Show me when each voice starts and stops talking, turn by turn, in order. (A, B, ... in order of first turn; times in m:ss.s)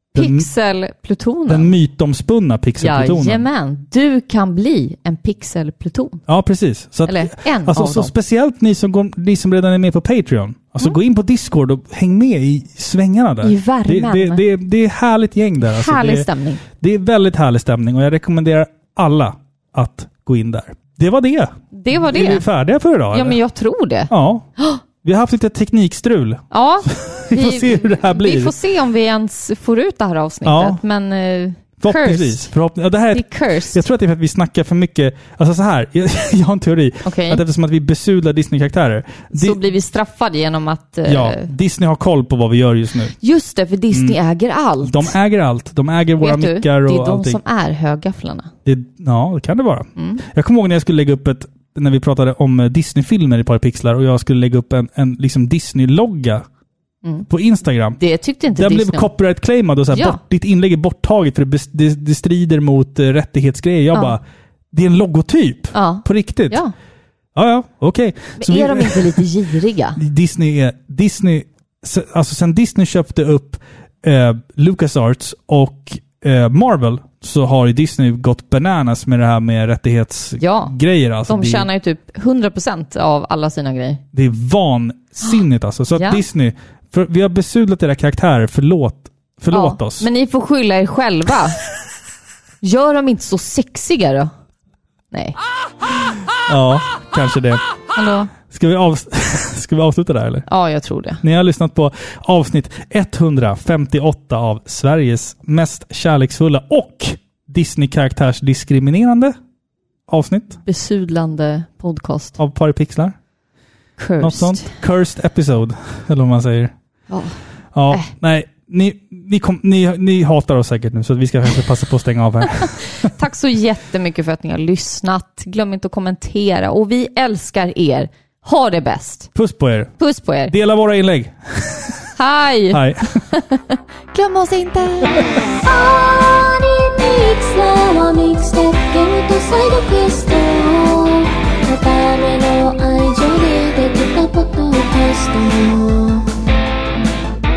0:00.2-0:00.5 A
0:00.2-0:01.7 B
0:01.5-0:03.4 A
0:02.8-0:06.2 B
0:06.3-0:23.4 A
0:07.0-0:08.1 B
0:13.4-0:14.4 B
0:15.6-0:16.6 B
0:21.7-0:22.4 B
0:23.1-0:24.8 B
0:24.1-0:24.5 A
0:25.0-0:28.5 A
0:26.5-0:32.5 B
0:30.4-0:30.8 A
0:31.8-0:39.6 A
0:33.1-0:33.8 B
0:37.0-0:37.4 B
0:39.3-0:41.5 B
0:41.0-0:43.2 A
0:43.2-0:45.1 B
0:43.9-0:44.2 A
0:44.8-0:47.4 A
0:46.2-0:48.5 B
0:48.6-0:56.5 A
0:50.0-0:50.2 B
0:57.3-0:58.0 A
0:58.0-0:59.1 B
0:58.5-1:04.2 A
0:59.9-1:00.2 B
1:04.7-1:06.6 A
1:05.7-1:06.7 B
1:07.4-1:09.2 A
1:08.4-1:10.0 B
1:10.0-1:21.7 A
1:20.4-1:20.7 B
1:21.3-1:24.0 B
1:24.1-1:30.1 A
1:26.0-1:26.2 B
1:29.5-1:31.6 B
1:32.6-1:34.3 B
1:35.1-1:35.4 B
1:36.5-1:37.6 A
1:38.0-1:38.3 B
1:38.5-1:40.5 A
1:40.5-1:41.2 B
1:41.2-1:49.4 A
1:50.1-1:50.6 A
1:50.6-1:52.4 B
1:52.4-1:53.2 A
1:54.0-1:54.7 B
1:54.2-1:56.7 A
1:57.1-1:57.4 B
1:57.8-2:03.1 A
2:03.0-2:09.3 B
2:09.4-2:09.9 A
2:10.0-2:10.5 B
2:10.5-2:12.0 A
2:12.2-2:15.3 B
2:12.7-2:13.2 A
2:15.5-2:26.3 C